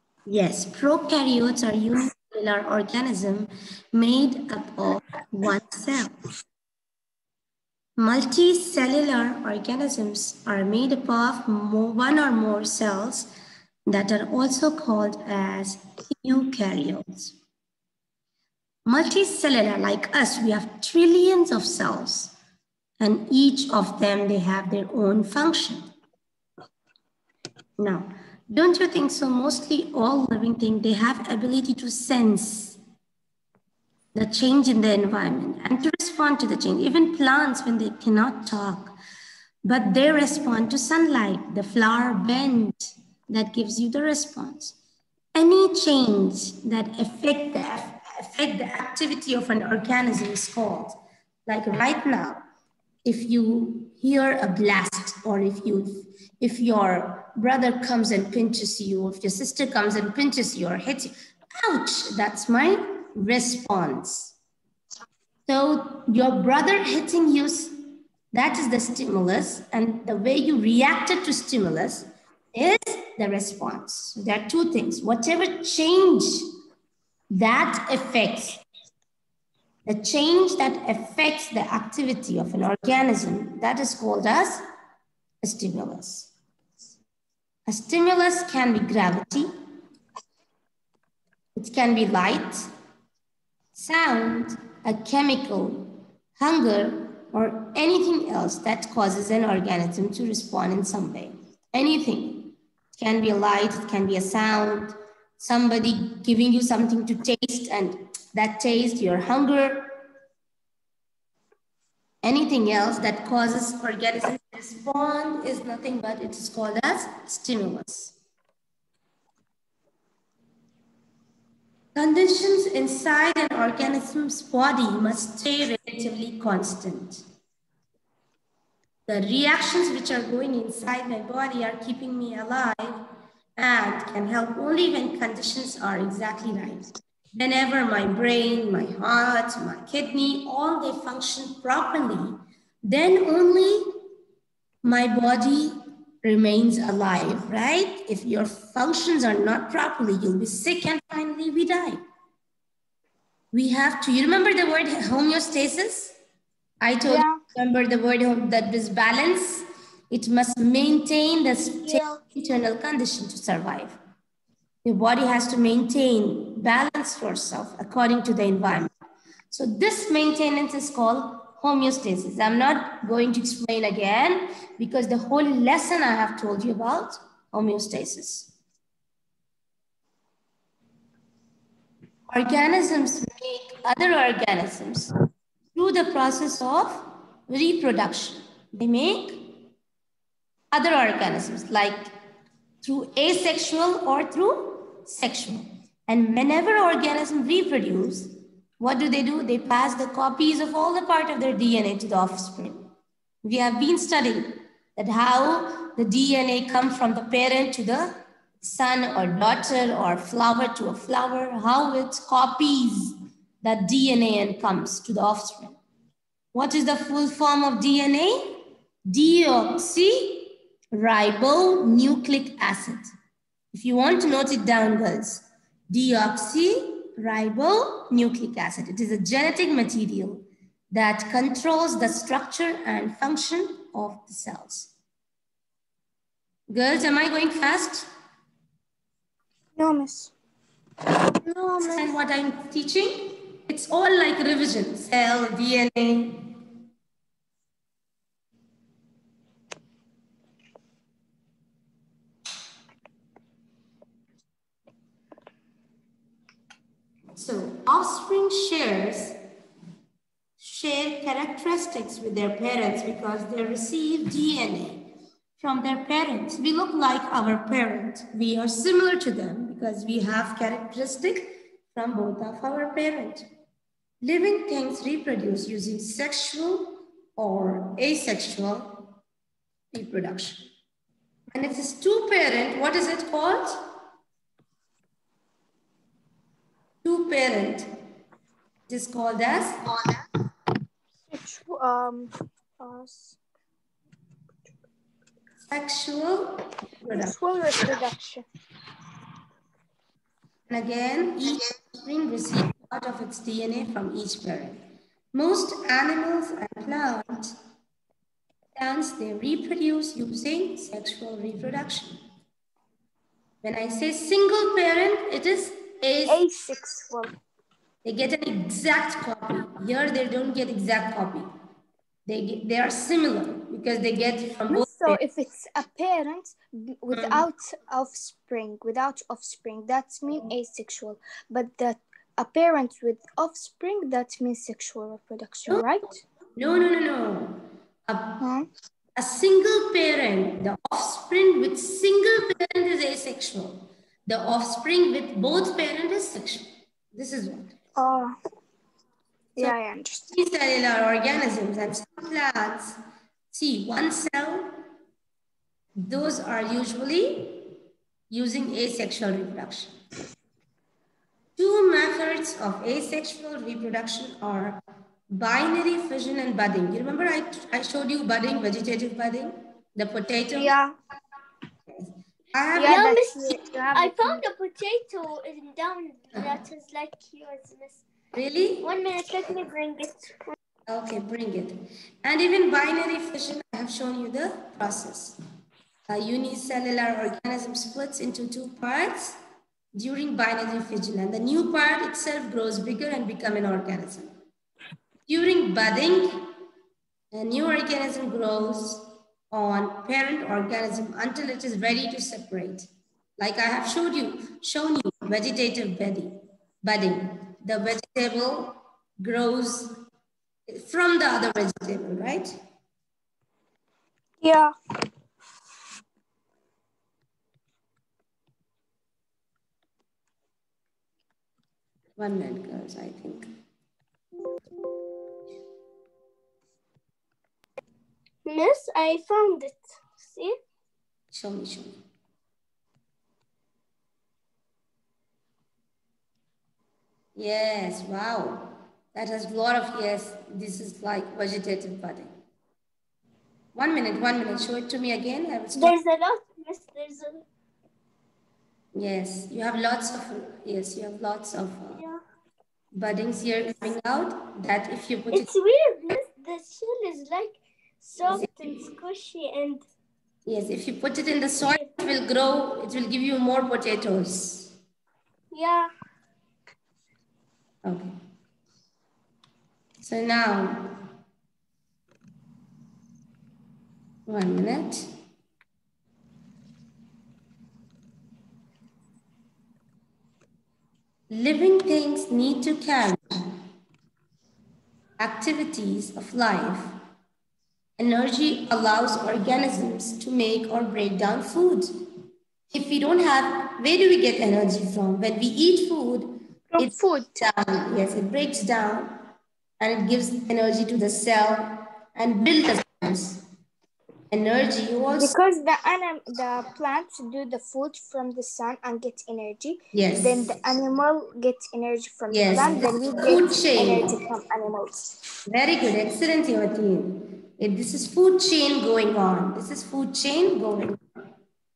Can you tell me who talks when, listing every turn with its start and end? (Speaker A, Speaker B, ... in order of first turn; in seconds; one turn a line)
Speaker A: 0.3-6.1
Speaker A: 8.0-13.3
Speaker A: 13.9-17.3
Speaker A: 18.9-22.3
Speaker A: 23.0-25.8
Speaker A: 27.8-32.8
Speaker A: 34.1-38.9
Speaker A: 39.6-44.8
Speaker A: 45.4-52.4
Speaker A: 53.0-64.3
Speaker A: 65.5-67.7
Speaker A: 68.3-76.5
Speaker A: 77.3-78.6
Speaker A: 79.9-84.6
Speaker A: 85.4-86.3
Speaker A: 87.7-89.5
Speaker A: 91.6-92.7
Speaker A: 93.7-109.9
Speaker A: 112.2-118.2
Speaker A: 122.0-127.2
Speaker A: 129.1-143.9
Speaker A: 144.8-152.0
Speaker A: 153.5-156.2
Speaker A: 156.8-164.0
Speaker B: 157.1-157.4
Speaker A: 164.8-168.9
Speaker A: 169.5-178.5
Speaker A: 182.3-185.1
Speaker A: 185.7-189.6
Speaker A: 190.7-192.1
Speaker A: 192.8-202.9
Speaker A: 203.4-215.8
Speaker A: 216.5-223.1
Speaker A: 223.7-234.9
Speaker A: 236.7-238.1
Speaker B: 239.8-240.3
Speaker C: 241.4-242.1
Speaker A: 241.8-246.6
Speaker A: 257.4-259.4
Speaker A: 260.6-273.4
Speaker A: 274.2-279.1
Speaker A: 279.9-280.6
Speaker A: 281.5-283.9
Speaker A: 287.0-287.9
Speaker A: 288.9-289.8
Speaker B: 291.3-293.4
Speaker A: 295.7-297.4
Speaker B: 297.1-298.4
Speaker A: 300.7-304.8
Speaker A: 305.3-307.6
Speaker A: 308.8-312.2
Speaker A: 313.6-316.4
Speaker B: 316.3-317.3
Speaker A: 318.0-321.5
Speaker A: 322.3-325.2
Speaker B: 324.7-336.2
Speaker A: 327.1-327.4
Speaker A: 336.6-338.4
Speaker B: 338.4-338.7
Speaker A: 339.2-347.8
Speaker B: 348.0-348.3
Speaker B: 349.6-350.4
Speaker A: 350.3-353.0
Speaker A: 353.5-354.8
Speaker A: 356.0-357.7
Speaker A: 358.3-359.9
Speaker A: 361.6-364.8
Speaker A: 365.3-370.8
Speaker B: 370.5-370.9
Speaker A: 371.9-373.1
Speaker B: 372.8-374.4
Speaker C: 372.8-378.0
Speaker A: 378.3-378.9
Speaker C: 378.8-380.5
Speaker A: 380.9-385.4
Speaker A: 386.1-389.4
Speaker A: 389.9-394.3
Speaker A: 395.3-396.4
Speaker A: 397.3-402.9
Speaker A: 403.4-409.9
Speaker A: 410.7-412.5
Speaker B: 414.4-414.7
Speaker A: 422.2-423.5
Speaker C: 428.4-430.6
Speaker A: 431.3-431.9
Speaker A: 437.4-442.3
Speaker A: 443.8-446.0
Speaker C: 445.7-447.4
Speaker A: 448.9-452.0
Speaker A: 452.9-455.5
Speaker C: 455.3-459.9
Speaker A: 458.3-458.9
Speaker A: 460.5-464.8
Speaker C: 465.5-465.9
Speaker A: 467.9-468.1
Speaker A: 470.0-470.9
Speaker A: 474.3-475.1
Speaker A: 481.3-483.6
Speaker A: 485.2-487.0
Speaker A: 488.0-491.9
Speaker A: 492.7-499.2
Speaker B: 496.7-497.4
Speaker A: 499.8-503.4
Speaker A: 504.3-505.4
Speaker B: 505.2-515.2
Speaker A: 509.9-510.4
Speaker A: 512.3-514.1
Speaker A: 515.5-521.0